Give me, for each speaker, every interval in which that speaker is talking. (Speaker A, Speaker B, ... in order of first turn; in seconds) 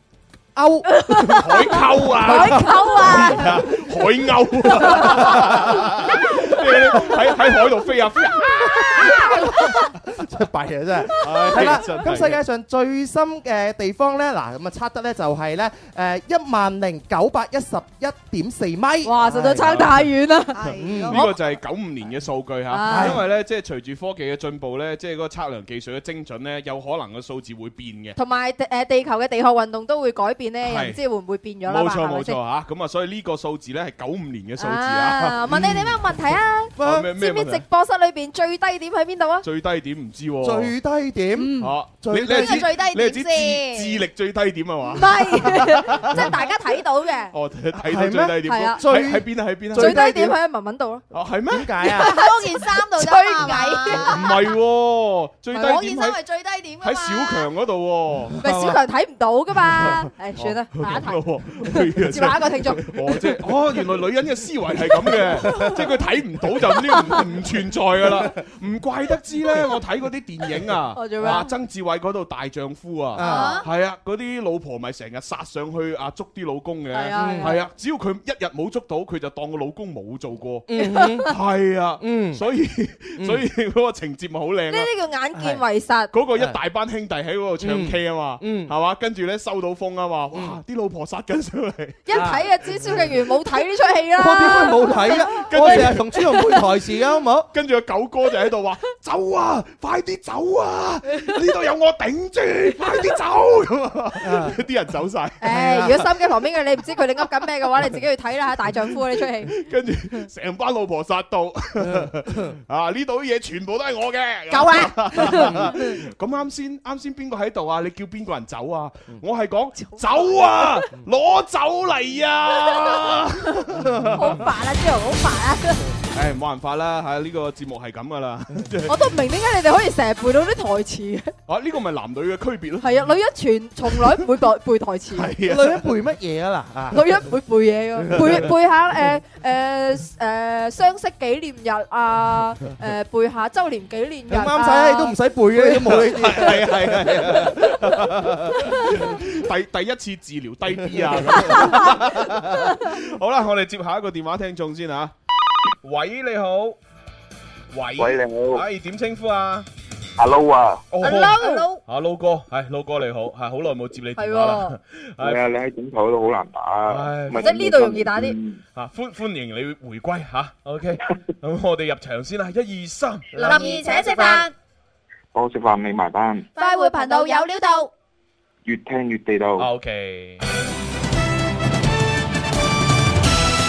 Speaker A: 0.5-1.1, 2.3-3.2, 9.0-19.7, 20.8-21.2, 22.9-23.2, 40.4-42.6, 47.8-50.4, 51.5-52.1, 58.4-58.8, 65.3-65.7, 73.2-73.6, 77.2-77.6, 80.7-81.3, 82.0-82.4, 85.3-85.6, 87.6-88.7, 90.3-90.6, 92.1-93.2, 94.2-97.5, 104.2-104.6, 105.5-106.0, 111.8-112.5, 123.7-124.4, 135.4-137.1, 138.1-138.5, 144.3-148.4, 150.9-151.7
Speaker B: 0.9-3.8, 4.8-5.4, 6.3-7.1, 8.7-9.8, 19.0-20.6, 22.7-23.2, 28.2-32.4, 34.6-39.5, 41.4-41.7, 45.0-47.3, 48.5-48.8, 49.8-51.0, 52.0-54.3, 58.4-63.0, 71.0-71.5, 73.2-73.6, 76.9-77.6, 80.8-81.2, 84.7-86.1, 92.1-96.7, 105.4-109.5, 114.5-115.9, 119.9-120.7, 124.2-125.8, 128.9-131.3, 132.8-135.3, 136.9-145.2, 151.5-152.9, 161.0-161.7, 164.2-164.8, 167.4-168.3, 173.3-174.5, 176.6-177.6
Speaker C: 1.2-9.3, 11.2-12.4, 19.6-20.0, 21.1-28.2, 30.6-31.0, 31.7-35.5, 36.8-37.6, 39.4-40.7, 41.6-46.3, 47.3-50.1, 51.1-51.8, 54.0-56.2, 56.8-58.4, 59.8-84.9, 86.1-92.0, 95.4-96.1, 97.5-105.5, 109.5-124.2, 126.1-129.1, 131.5-133.0, 135.1-135.8, 145.6-155.1, 155.8-156.8, 157.7-159.7, 160.9-165.4, 166.9-167.6, 168.8-173.7, 179.6-180.4
Speaker D: 20.5-21.5, 42.3-44.0, 52.1-54.4, 55.5-57.5, 173.5-174.4, 176.6-177.9
Speaker E: 158.0-158.6, 160.2-160.8, 165.2-168.6, 175.3-176.5, 178.7-179.7